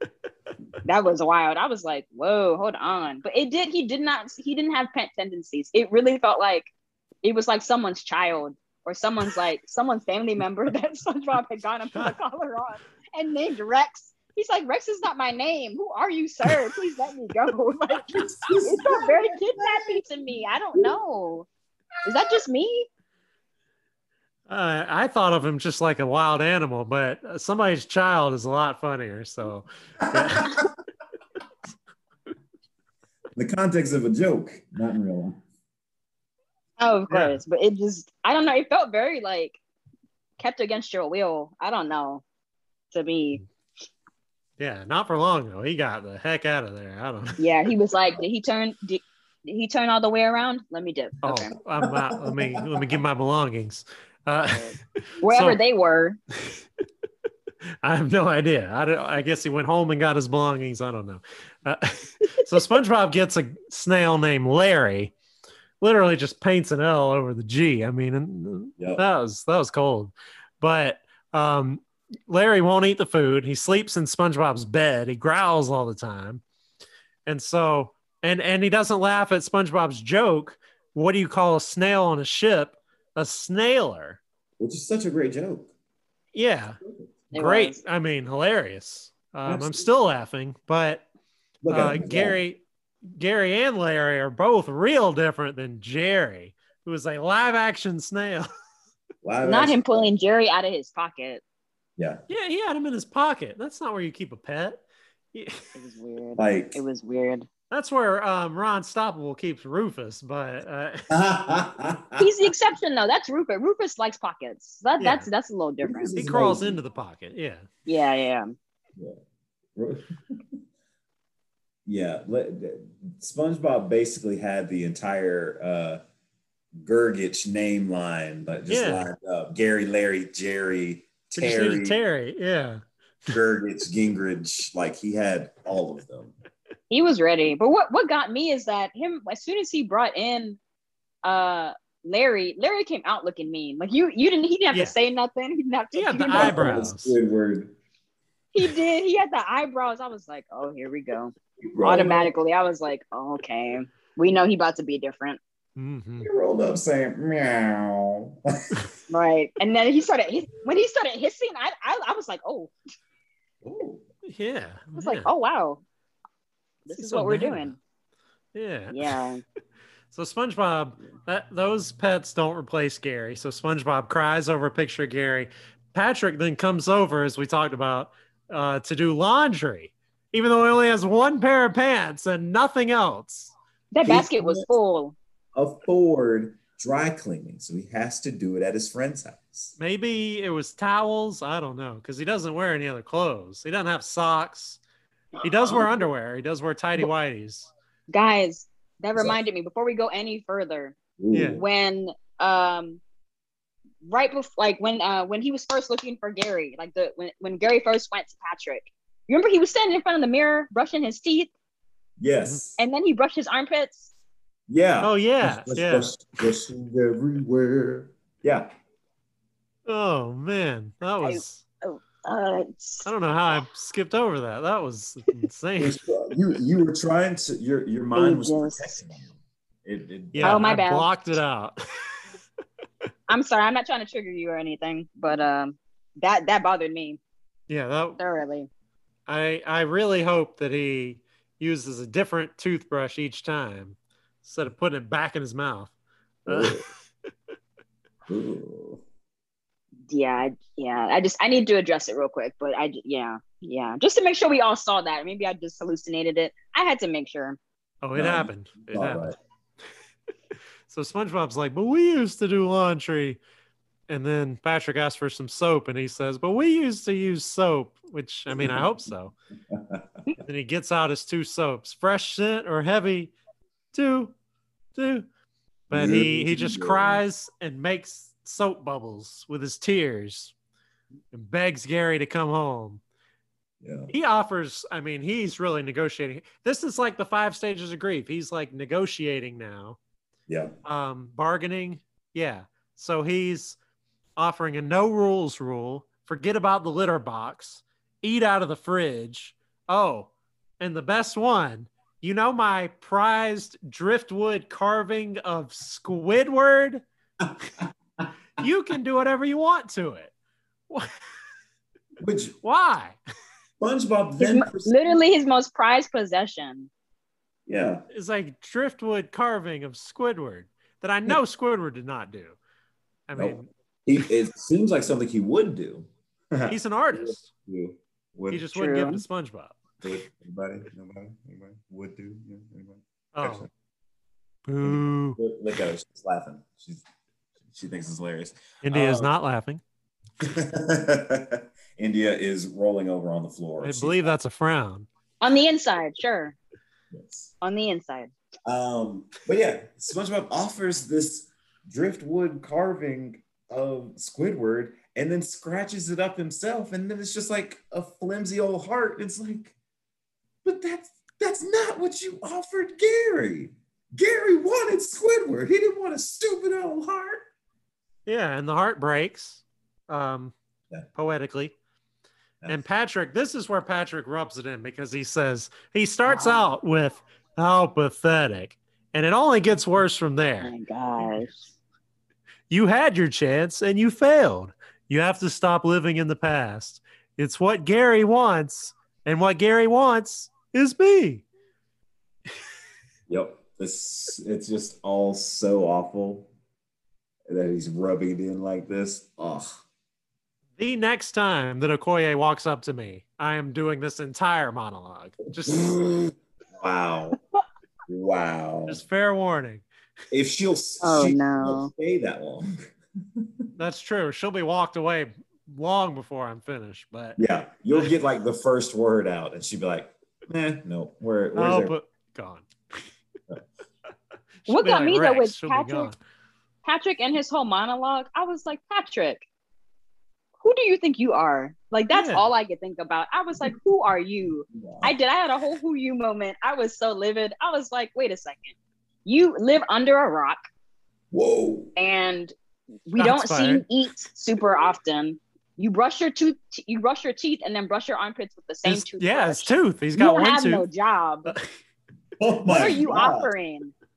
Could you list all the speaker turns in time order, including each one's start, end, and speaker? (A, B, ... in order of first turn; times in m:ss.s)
0:00.8-0:06.7 A
0:07.2-0:21.5 A
0:18.1-0:20.0 B
0:22.0-0:22.9 A
0:24.5-0:30.6 C
0:30.0-0:30.7 B
0:33.4-0:35.4 B
0:36.8-0:39.6 A
0:37.1-0:37.4 C
0:40.4-0:42.2 A
0:42.9-0:43.4 A
0:44.6-0:47.4 C
0:47.4-0:51.5 A
0:51.2-0:54.7 C
0:51.8-0:52.9 B
0:54.5-0:56.2 A
0:55.2-0:55.6 C
0:57.8-1:05.1 C
1:05.8-1:16.4 C
1:08.8-1:09.0 B
1:17.2-1:24.2 C
1:24.6-1:25.7 B
1:26.3-1:26.8 C
1:26.8-1:27.2 B
1:27.3-1:27.8 A
1:27.3-1:31.0 C
1:29.4-1:29.8 B
1:31.6-1:32.4 B
1:31.7-1:38.5 C
1:39.2-1:40.1 B
1:39.4-1:41.4 A
1:42.0-1:42.2 B
1:42.3-1:45.7 C
1:45.7-1:47.5 A
1:46.4-1:46.8 B
1:47.7-1:51.1 C
1:51.1-1:52.2 B
1:52.2-1:56.1 A
1:55.0-1:55.3 C
1:55.8-1:56.8 B
1:56.2-1:57.7 C
1:57.8-1:58.5 A
1:59.7-2:00.4 B
2:01.8-2:06.0 B
2:06.8-2:12.0 B
2:08.7-2:09.1 C
2:11.4-2:13.3 C
2:13.3-2:16.3 B
2:16.9-2:20.6 A
2:21.2-2:26.9 A
2:25.9-2:27.2 C
2:26.3-2:27.7 B
2:28.5-2:35.4 A
2:31.6-2:32.3 B
2:35.8-2:36.3 C
2:36.2-2:38.8 B
2:39.1-2:42.7 A
2:43.6-2:44.0 B
2:44.2-2:45.3 C
2:45.0-2:45.8 A
2:46.8-2:47.8 A
2:47.0-2:47.7 C
2:48.5-2:49.2 C
2:48.9-2:49.4 A
2:50.1-3:03.5 C
3:03.9-3:05.2 A
3:04.0-3:04.7 B
3:05.6-3:09.7 B
3:09.8-3:14.8 C
3:15.4-3:17.7 C
3:18.1-3:21.0 A
3:21.2-3:21.6 B
3:21.3-3:21.6 C
3:21.5-3:23.0 A
3:24.0-3:31.5 A
3:32.2-3:32.8 B
3:32.8-3:34.1 A
3:34.7-3:38.7 B
3:35.0-3:36.3 C
3:39.8-3:41.6 C
3:41.2-3:43.1 A
3:43.0-3:46.0 C
3:45.8-3:50.8 B
3:48.1-3:49.0 A
3:50.3-3:52.2 C
3:50.4-3:51.1 A
3:53.3-3:57.2 A
3:57.7-3:58.2 C
3:58.2-3:58.7 A
3:59.3-4:05.9 C
4:06.4-4:06.8 B
4:06.5-4:06.8 C
4:08.3-4:09.0 B
4:10.1-4:17.6 A
4:18.0-4:19.4 C
4:18.1-4:19.3 B
4:20.9-4:23.4 C
4:24.1-4:29.3 C
4:28.5-4:29.1 B
4:29.7-4:30.0 B
4:30.4-4:33.3 C
4:33.9-4:34.3 C
4:34.9-4:35.3 C
4:35.9-4:37.2 B
4:35.9-4:40.5 C
4:41.3-4:43.0 C
4:43.8-4:44.1 B
4:44.1-4:50.0 C
4:50.5-4:50.7 B
4:50.8-4:53.8 C
4:54.4-5:07.0 C
5:07.4-5:08.3 B
5:08.6-5:10.3 C
5:12.2-5:12.6 B
5:12.6-5:13.2 C
5:13.8-5:14.9 B
5:14.4-5:16.9 A
5:17.7-5:18.0 B
5:18.1-5:22.6 C
5:23.3-5:23.7 C
5:23.4-5:28.6 B
5:26.7-5:27.5 C
5:28.5-5:29.8 C
5:28.7-5:29.2 A
5:30.0-5:33.7 B
5:33.3-5:33.7 C
5:34.6-5:35.4 C
5:34.8-5:37.0 B
5:37.6-5:39.3 B
5:38.8-5:39.8 C
5:40.4-5:44.3 B
5:43.8-5:45.1 C
5:45.4-5:46.6 A
5:47.1-5:47.5 B
5:47.6-5:48.3 A
5:48.6-5:59.7 B
6:00.6-6:07.5 B
6:08.2-6:10.5 C
6:11.2-6:11.7 C
6:12.7-6:20.7 C
6:16.2-6:16.6 A
6:20.6-6:21.7 A
6:22.7-6:31.4 C
6:33.3-6:36.5 B
6:37.5-6:39.8 B
6:40.8-6:45.9 C
6:45.7-6:47.4 B
6:48.1-6:49.0 B
6:48.9-6:49.8 C
6:50.3-6:52.7 B
6:51.0-6:51.9 A
6:53.4-6:53.7 B
6:53.8-6:57.4 C
6:57.4-7:01.9 B
7:01.5-7:03.1 C
7:04.6-7:06.2 C
7:04.7-7:06.1 A
7:06.8-7:09.4 A
7:10.6-7:20.6 A
7:12.1-7:12.5 C
7:14.7-7:15.1 B
7:21.3-7:21.9 B
7:22.0-7:22.5 A
7:23.1-7:31.5 A
7:23.2-7:23.8 C
7:28.8-7:30.8 C
7:31.4-7:31.7 C
7:32.4-7:33.5 B
7:32.7-7:33.9 A